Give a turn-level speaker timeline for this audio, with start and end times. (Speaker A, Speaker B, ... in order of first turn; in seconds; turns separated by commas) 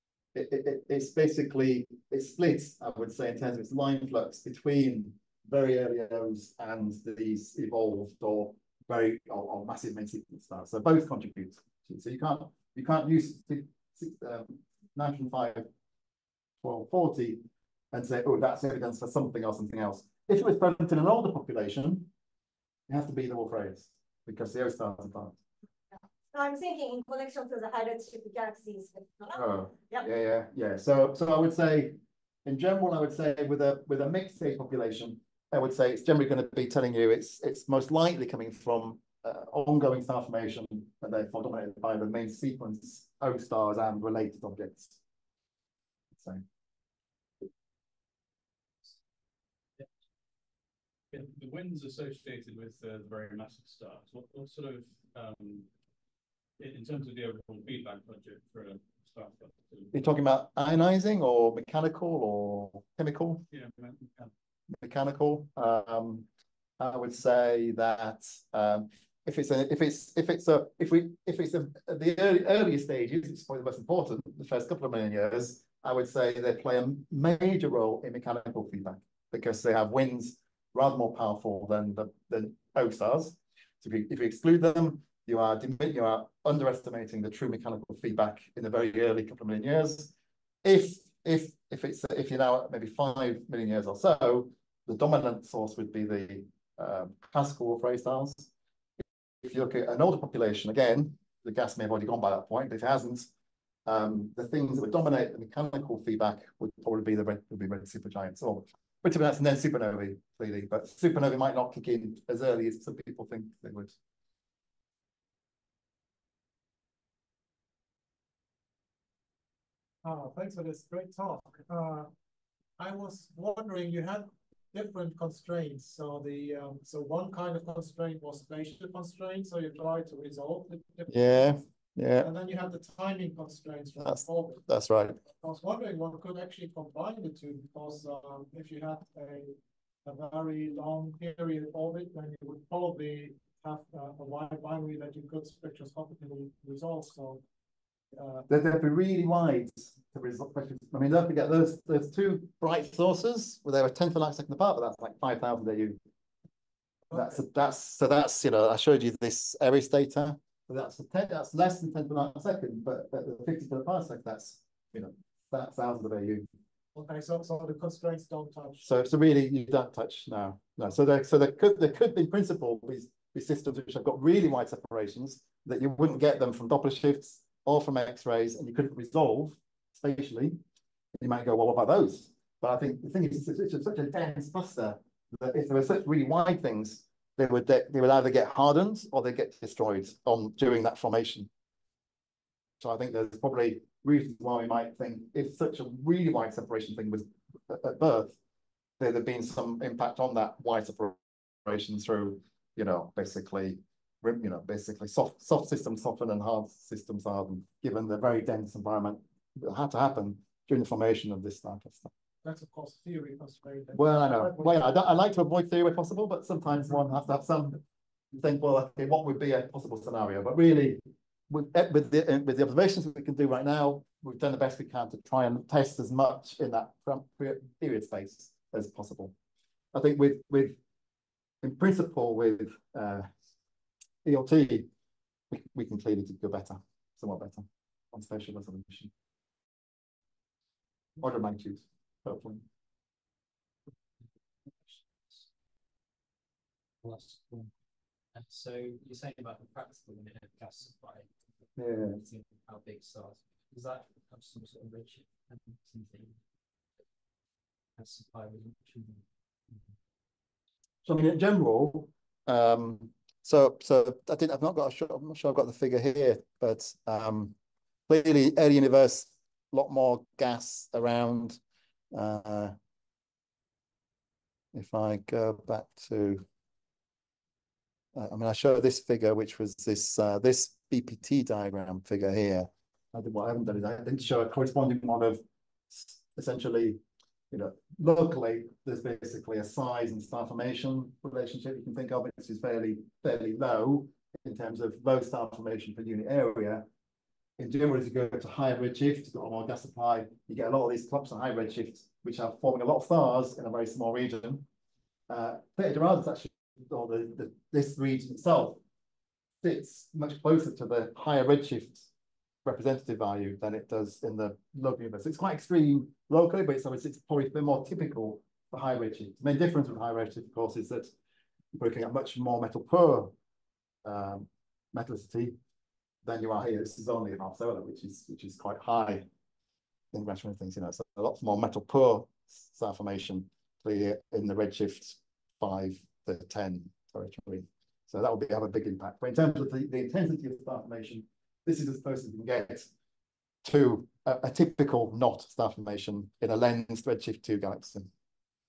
Speaker A: 0.3-15.7, Speaker A: 16.6-22.1, Speaker A: 22.9-25.4, Speaker B: 26.3-30.1, Speaker A: 29.3-45.0, Speaker A: 46.2-46.4, Speaker C: 51.1-55.7, Speaker C: 56.6-60.0, Speaker A: 59.9-63.5, Speaker C: 63.5-64.3, Speaker A: 64.8-66.3, Speaker A: 66.8-90.1, Speaker A: 90.6-98.5, Speaker A: 99.4-103.3, Speaker A: 103.9-113.9, Speaker D: 120.0-122.1, Speaker D: 122.8-131.1, Speaker A: 131.1-132.3, Speaker D: 132.2-134.7, Speaker A: 134.0-135.2, Speaker D: 135.3-147.4, Speaker D: 148.1-148.5, Speaker A: 148.5-156.0, Speaker A: 157.1-166.5, Speaker D: 166.9-168.9, Speaker A: 168.8-180.6, Speaker A: 181.2-191.5, Speaker A: 192.8-198.4, Speaker A: 199.0-212.1, Speaker D: 212.4-214.8, Speaker A: 213.9-217.8, Speaker A: 218.3-229.3, Speaker A: 229.9-230.8, Speaker A: 231.6-233.3, Speaker A: 234.2-234.9, Speaker A: 235.5-239.1, Speaker A: 241.2-242.7, Speaker E: 244.7-245.5, Speaker E: 247.0-247.7, Speaker E: 248.3-251.3, Speaker A: 251.8-252.2, Speaker E: 251.8-256.4, Speaker E: 258.0-259.2, Speaker A: 261.1-267.6, Speaker A: 268.1-271.6, Speaker A: 272.1-272.8, Speaker A: 274.7-276.4, Speaker A: 278.1-296.9, Speaker A: 297.6-304.6, Speaker A: 305.3-308.8, Speaker A: 309.6-312.1, Speaker A: 312.6-321.1, Speaker A: 321.7-323.3, Speaker A: 324.1-325.6, Speaker A: 326.2-329.3, Speaker A: 330.1-342.9, Speaker A: 343.6-348.1